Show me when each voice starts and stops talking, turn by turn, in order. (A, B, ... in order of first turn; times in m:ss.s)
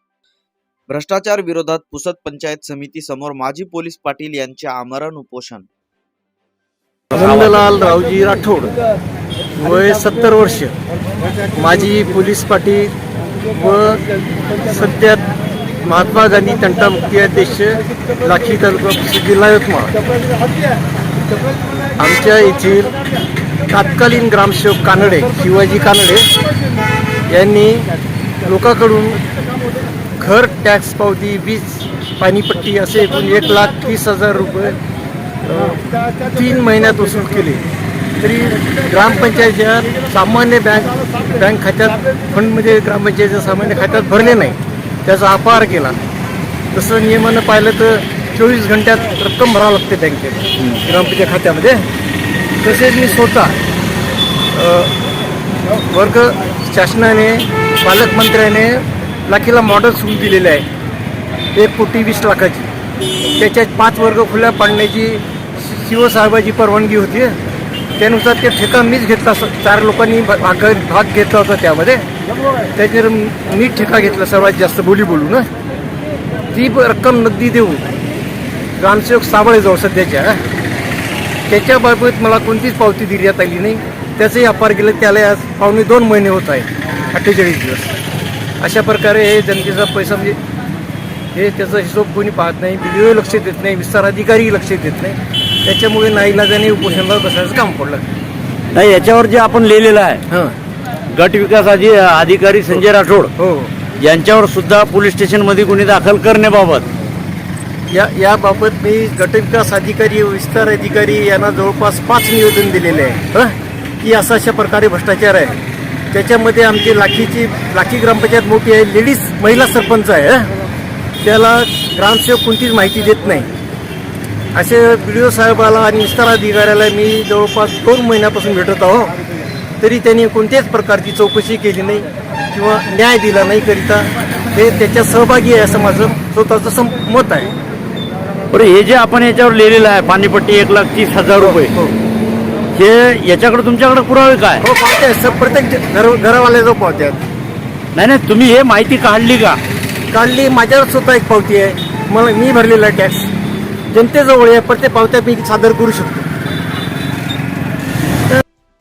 0:00.9-0:05.7 A
0:07.1-0:08.7 B
0:09.6-0:10.7 B
0:11.6-0:12.9 B
0:13.5-0:14.0 B
0:14.6-0:15.2 B
0:15.9-0:19.9 B
0:22.0-0:22.9 B
0:23.7-0:26.3 B
0:27.3-0:27.9 B
0:28.4-0:29.2 B
0:30.2-0:34.8 B
0:35.5-0:37.6 B
0:38.2-0:46.0 B
0:46.7-0:51.8 B
0:52.6-0:53.6 B
0:54.5-0:54.9 B
0:55.9-1:00.6 B
1:01.6-1:02.7 B
1:03.4-1:07.4 B
1:08.0-1:12.0 B
1:12.8-1:15.5 B
1:16.5-1:17.9 B
1:18.8-1:20.4 B
1:21.5-1:27.9 B
1:28.6-1:30.4 B
1:31.4-1:38.1 B
1:38.7-1:40.2 C
1:40.3-1:40.6 B
1:41.1-1:43.3 C
1:43.4-1:43.7 B
1:44.0-1:46.9 C
1:47.9-1:55.6 B
1:56.1-2:00.5 B
2:01.2-2:03.5 B
2:04.5-2:09.1 B
2:09.8-2:17.5 B
2:18.5-2:21.7 C
2:21.4-2:21.9 B
2:22.8-2:24.6 C
2:24.6-2:27.2 B
2:28.0-2:29.6 C
2:30.1-2:33.3 B
2:33.9-2:36.3 B